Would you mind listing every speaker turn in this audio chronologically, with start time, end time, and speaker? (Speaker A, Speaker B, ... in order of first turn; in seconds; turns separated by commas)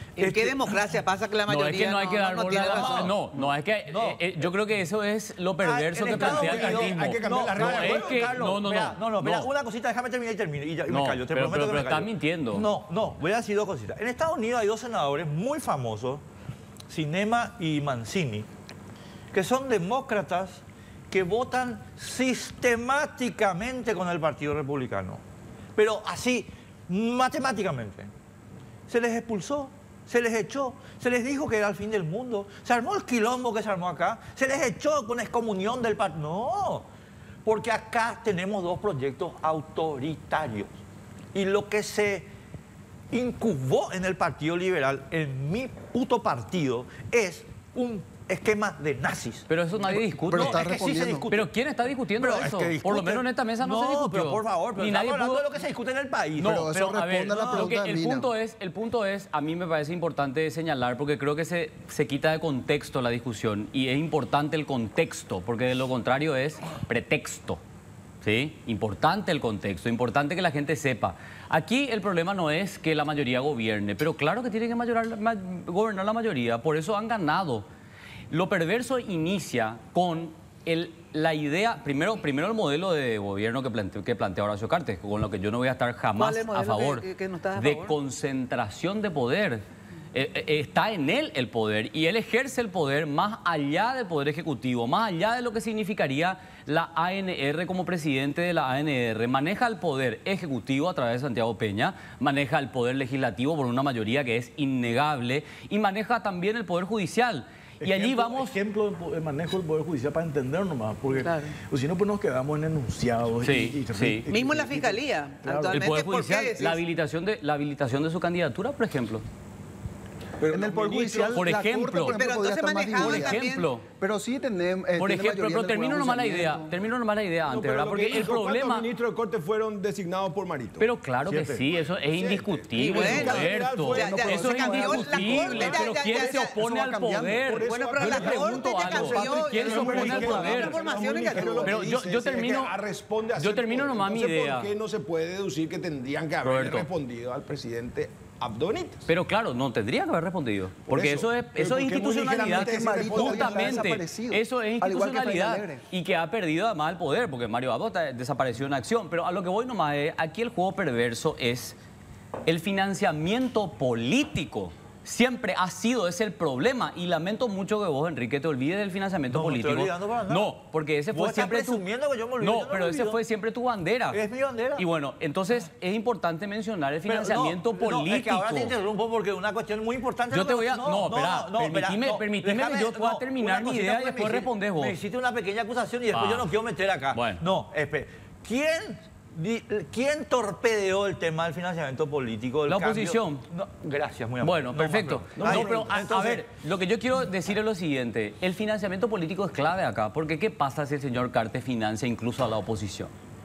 Speaker A: 0.2-3.2, Speaker B: 0.2-0.7, Speaker C: 1.5-9.5, Speaker B: 2.6-3.2, Speaker B: 3.9-4.3, Speaker B: 5.6-16.2, Speaker D: 6.0-8.4, Speaker C: 10.9-12.7, Speaker B: 16.9-18.5, Speaker B: 19.3-25.2, Speaker B: 25.8-28.1, Speaker B: 28.9-36.9, Speaker B: 37.5-40.7, Speaker B: 41.3-42.3, Speaker B: 43.1-51.5, Speaker C: 49.5-50.6, Speaker E: 50.3-51.3, Speaker C: 51.3-55.5, Speaker B: 52.2-56.7, Speaker E: 56.4-58.3, Speaker C: 56.4-67.6, Speaker B: 57.2-57.8, Speaker C: 68.2-77.7, Speaker C: 78.3-87.0, Speaker A: 86.2-88.0, Speaker C: 87.6-108.6, Speaker F: 107.8-115.9, Speaker A: 111.1-111.6, Speaker C: 113.4-114.2, Speaker A: 114.3-116.8, Speaker C: 115.7-119.2, Speaker D: 120.4-121.5, Speaker E: 120.5-123.4, Speaker C: 121.3-122.2, Speaker A: 122.1-123.7, Speaker C: 123.0-123.8, Speaker E: 124.0-126.7, Speaker C: 125.0-128.9, Speaker D: 127.5-130.9, Speaker C: 130.8-140.8, Speaker F: 131.3-131.7, Speaker D: 132.0-136.2, Speaker A: 132.8-136.6, Speaker F: 134.0-135.7, Speaker E: 136.2-137.6, Speaker D: 137.3-149.1, Speaker A: 137.7-141.8, Speaker E: 141.2-141.6, Speaker C: 141.6-142.8, Speaker C: 143.4-144.7, Speaker C: 146.4-146.9, Speaker C: 149.1-161.8, Speaker D: 150.9-154.0, Speaker E: 152.5-155.8, Speaker C: 162.5-171.8, Speaker B: 169.3-170.6, Speaker B: 171.1-173.2, Speaker C: 172.4-174.2, Speaker B: 174.1-174.9, Speaker C: 174.8-178.7, Speaker B: 177.1-196.4, Speaker C: 180.3-185.0, Speaker C: 186.1-186.5, Speaker C: 187.1-187.4, Speaker C: 192.7-193.4, Speaker C: 194.4-203.1, Speaker D: 195.4-196.4